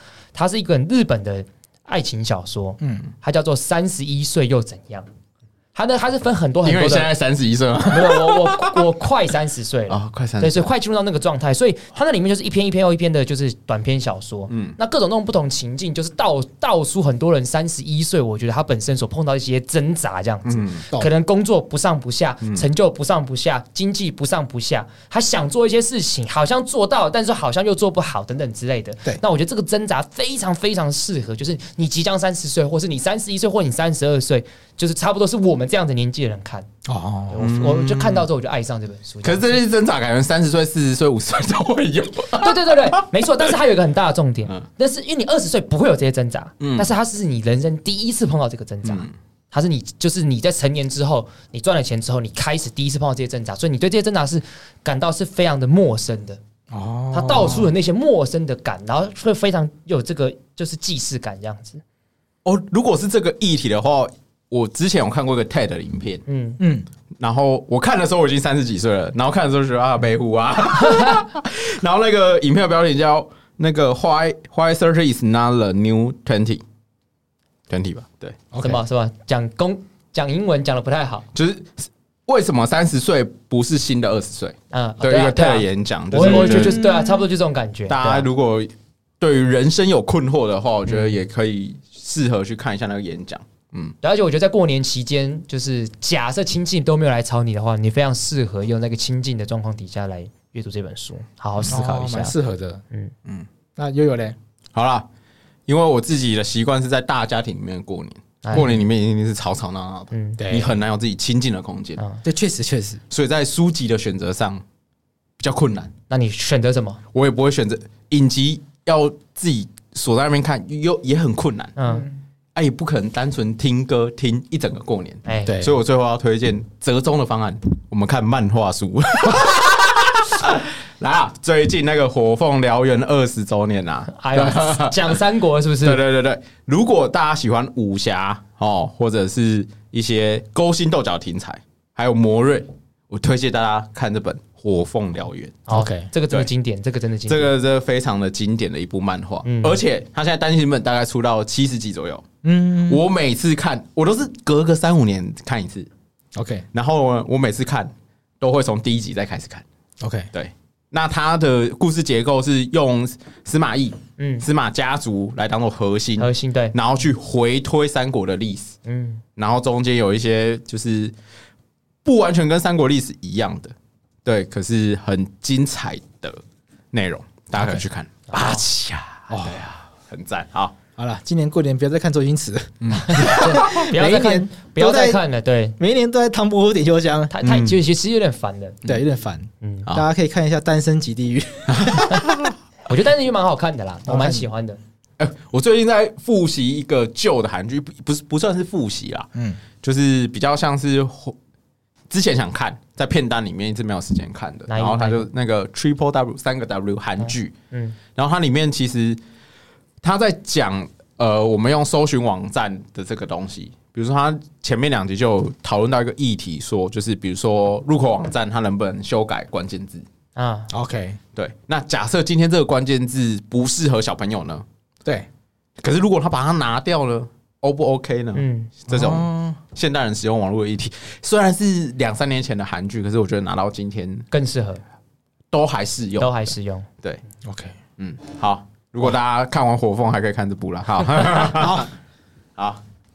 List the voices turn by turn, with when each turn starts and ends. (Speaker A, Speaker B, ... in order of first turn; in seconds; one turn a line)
Speaker A: 0.3-5.1
Speaker B: 2.8-3.0
Speaker A: 5.7-7.1
Speaker C: 6.6-8.8
Speaker A: 7.8-36.7
Speaker C: 9.9-10.7
Speaker C: 14.5-14.8
Speaker C: 20.4-20.8
Speaker B: 36.9-37.5
Speaker A: 37.3-39.6
Speaker C: 37.4-38.3
Speaker C: 39.2-43.0
Speaker A: 42.3-56.4
Speaker C: 46.6-46.9
Speaker C: 48.8-49.1
Speaker B: 56.7-57.7
Speaker A: 57.1-61.8
Speaker C: 62.4-66.2
Speaker A: 66.2-66.6
Speaker B: 66.6-66.9
Speaker C: 67.2-76.6
Speaker C: 77.7-78.4
Speaker B: 78.5-78.8
Speaker A: 78.6-81.2
Speaker C: 81.3-86.8
Speaker A: 84.7-88.3
Speaker B: 86.2-87.2
Speaker C: 87.9-93.9
Speaker A: 94.0-102.3
Speaker B: 101.7-102.8
Speaker B: 103.8-104.3
Speaker C: 104.7-105.0
Speaker C: 105.7-112.0
Speaker A: 108.4-108.8
Speaker A: 110.1-110.4
Speaker B: 110.4-110.8
Speaker A: 112.0-112.2
Speaker B: 112.2-113.0
Speaker C: 113.1-114.6
Speaker C: 115.4-115.9
Speaker A: 116.1-117.0
Speaker C: 117.1-121.8
Speaker A: 121.8-122.1
Speaker C: 122.5-135.2
Speaker A: 125.2-125.6
Speaker B: 125.4-125.7
Speaker A: 134.1-136.0
Speaker C: 135.8-145.7
Speaker A: 145.7-147.5
Speaker B: 145.7-146.1
Speaker C: 147.3-152.2
Speaker A: 149.4-149.8
Speaker B: 152.4-153.0
Speaker C: 152.9-155.9
Speaker B: 156.3-156.7
Speaker C: 156.7-159.6
Speaker B: 160.0-160.3
Speaker C: 160.3-168.7
Speaker A: 164.2-164.5
Speaker A: 166.2-166.8
Speaker A: 168.8-169.2
Speaker C: 169.4-171.1
Speaker C: 172.0-173.7
Speaker C: 174.2-176.4
Speaker C: 176.9-180.7
Speaker B: 177.5-177.8
Speaker A: 178.3-178.7
Speaker B: 179.3-179.7
Speaker B: 181.0-185.2
Speaker C: 182.8-183.6
Speaker A: 182.9-185.8
Speaker B: 185.8-187.4
Speaker A: 187.3-188.8
Speaker C: 187.4-187.8
Speaker B: 188.8-192.2
Speaker A: 189.6-189.9
Speaker C: 191.7-192.5
Speaker A: 192.9-194.8
Speaker B: 194.1-194.5
Speaker C: 195.2-201.3
Speaker B: 199.3-199.6
Speaker C: 202.1-207.5
Speaker A: 204.7-205.3
Speaker A: 207.2-208.0
Speaker C: 208.1-209.2
Speaker C: 210.0-220.0
Speaker A: 220.3-220.7
Speaker B: 220.7-221.2
Speaker C: 221.3-224.6
Speaker C: 225.8-234.3
Speaker A: 228.3-228.7
Speaker B: 228.9-229.6
Speaker A: 234.3-234.8
Speaker C: 235.5-237.2
Speaker A: 236.2-236.9
Speaker B: 237.4-237.7
Speaker C: 238.0-241.8
Speaker B: 241.5-241.9
Speaker C: 242.6-242.8